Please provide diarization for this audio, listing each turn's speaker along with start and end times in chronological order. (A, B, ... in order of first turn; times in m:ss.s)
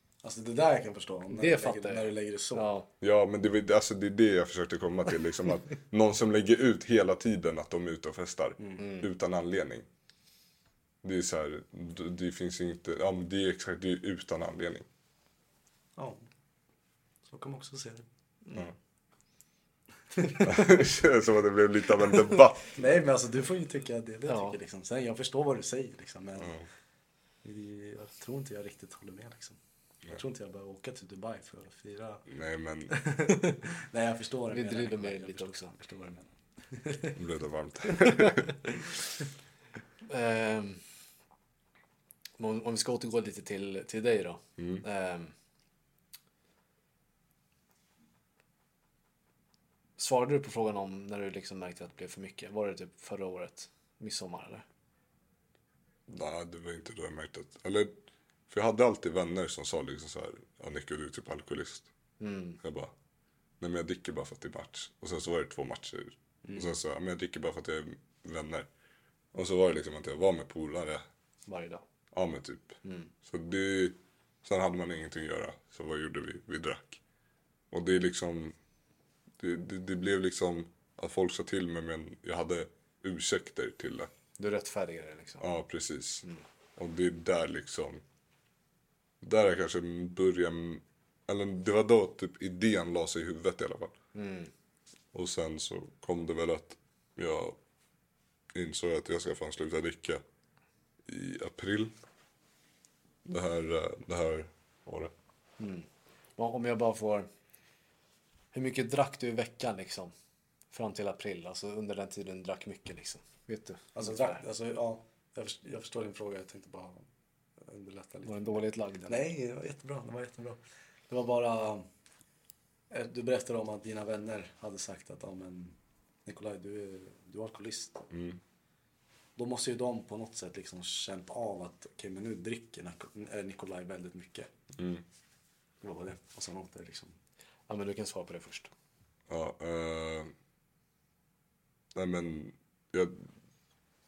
0:00.2-0:02.7 A
0:01.3-0:02.9 B
0:03.0-0:09.8 C
0:08.8-0:09.1 B
0:11.0-0:14.8 C
0:16.0-0:16.2 A
0:17.2-0:18.0 A
0:18.4-0:18.7 B
0:20.2-0:20.7 A
0:20.4-0:22.8 C
0:22.7-0:26.6 A
0:24.3-0:24.6 B
0:26.4-0:26.7 C
0:27.4-0:29.6 A
0:30.1-0:32.2 A
0:32.3-0:33.0 C
0:32.9-0:37.2 A
0:34.5-0:35.7 B
0:37.1-0:38.5 C
0:40.0-0:40.8 B
0:42.4-0:45.3 B
0:44.6-0:44.8 C
0:50.0-0:54.6 B
0:56.1-0:57.9 C
0:58.5-1:01.9 C
1:02.2-1:02.6 B
1:02.6-1:02.9 C
1:03.6-1:08.7 C
1:06.4-1:06.7 A
1:09.3-1:11.0 C
1:11.5-1:11.8 B
1:12.1-1:17.0 C
1:12.8-1:13.1 B
1:17.7-1:18.6 C
1:19.4-1:24.1 C
1:24.4-1:25.4 B
1:25.4-1:26.2 C
1:26.8-1:28.0 C
1:29.2-1:33.9 C
1:34.1-1:34.5 B
1:35.1-1:37.6 C
1:38.5-1:40.2 C
1:41.0-1:41.9 C
1:43.2-1:45.1 C
1:45.6-1:47.3 B
1:48.5-1:50.1 B
1:50.7-1:54.4 B
1:53.9-1:57.0 A
1:57.6-1:58.4 A
1:58.2-1:59.2 B
1:59.0-2:01.8 A
2:02.9-2:08.1 A
2:08.1-2:08.4 C
2:09.4-2:14.5 A
2:14.7-2:15.0 C
2:15.8-2:17.1 A
2:17.7-2:18.7 B
2:19.3-2:20.3 C
2:21.9-2:23.3 C